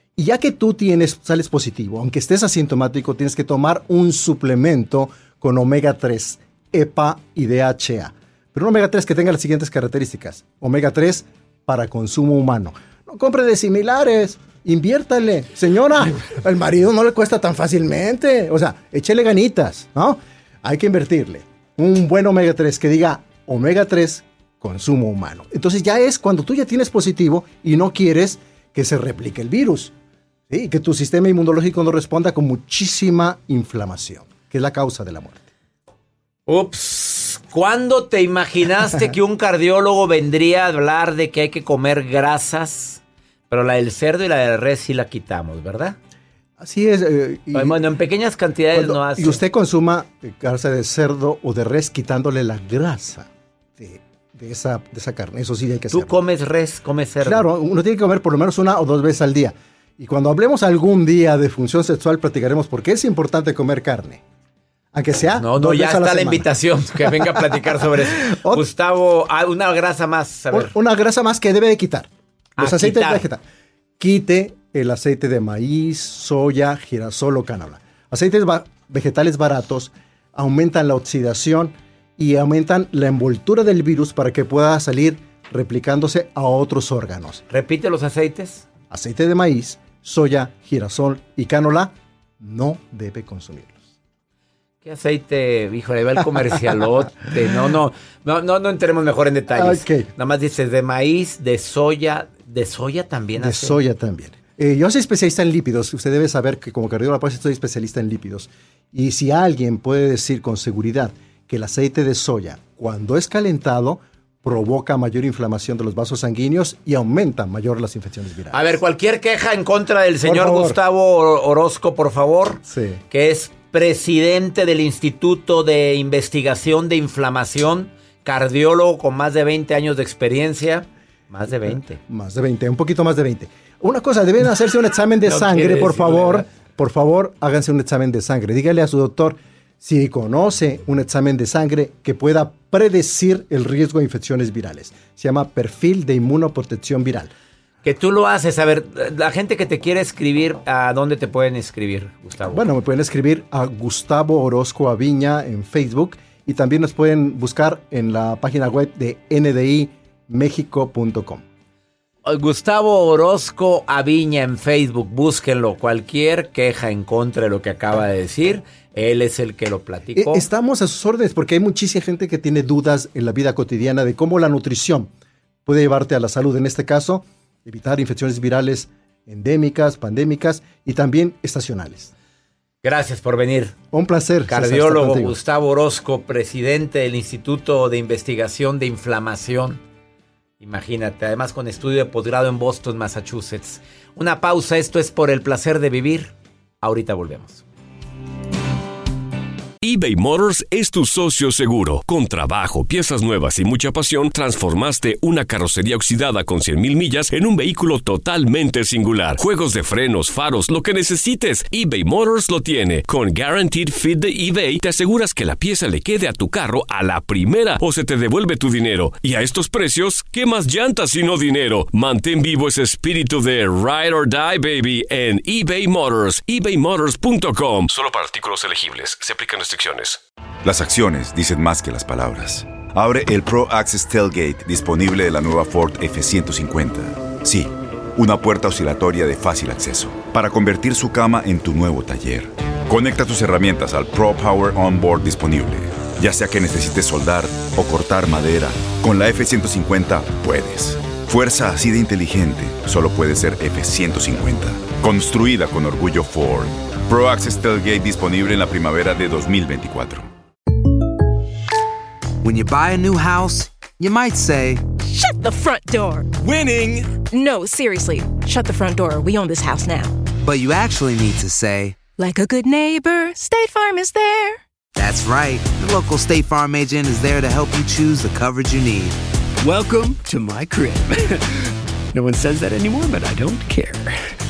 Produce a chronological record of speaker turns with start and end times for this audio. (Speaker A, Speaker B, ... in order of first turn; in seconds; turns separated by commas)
Speaker A: 0.2-29.9, Speaker A: 30.5-35.5, Speaker B: 36.5-46.0, Speaker A: 46.6-47.8, Speaker B: 47.5-49.4, Speaker A: 48.7-56.2, Speaker B: 55.9-57.5, Speaker A: 57.2-64.2, Speaker A: 64.9-66.5, Speaker B: 65.4-70.7, Speaker A: 67.0-68.7, Speaker A: 70.5-73.4, Speaker B: 72.6-73.3, Speaker A: 74.0-87.4, Speaker B: 87.5-88.7, Speaker A: 88.9-93.8, Speaker B: 94.8-103.8, Speaker A: 99.5-100.1, Speaker A: 103.4-118.7, Speaker B: 118.5-132.0, Speaker A: 120.2-120.8, Speaker A: 122.7-123.0, Speaker A: 131.5-147.3, Speaker B: 135.3-136.4, Speaker B: 147.8-152.6, Speaker A: 152.5-161.4, Speaker B: 162.3-170.5, Speaker A: 170.2-175.1, Speaker A: 175.7-182.1, Speaker B: 182.8-183.8, Speaker A: 183.9-185.4, Speaker B: 184.5-189.8, Speaker B: 190.6-197.6, Speaker C: 199.8-230.2, Speaker D: 230.6-260.3, Speaker E: 262.4-264.8, Speaker F: 265.0-266.4, Speaker G: 266.4-267.1, Speaker F: 267.2-270.2, Speaker E: 270.4-272.0, Speaker F: 272.2-274.6, Speaker E: 275.0-279.2, Speaker G: 279.6-281.6, Speaker G: 282.1-284.4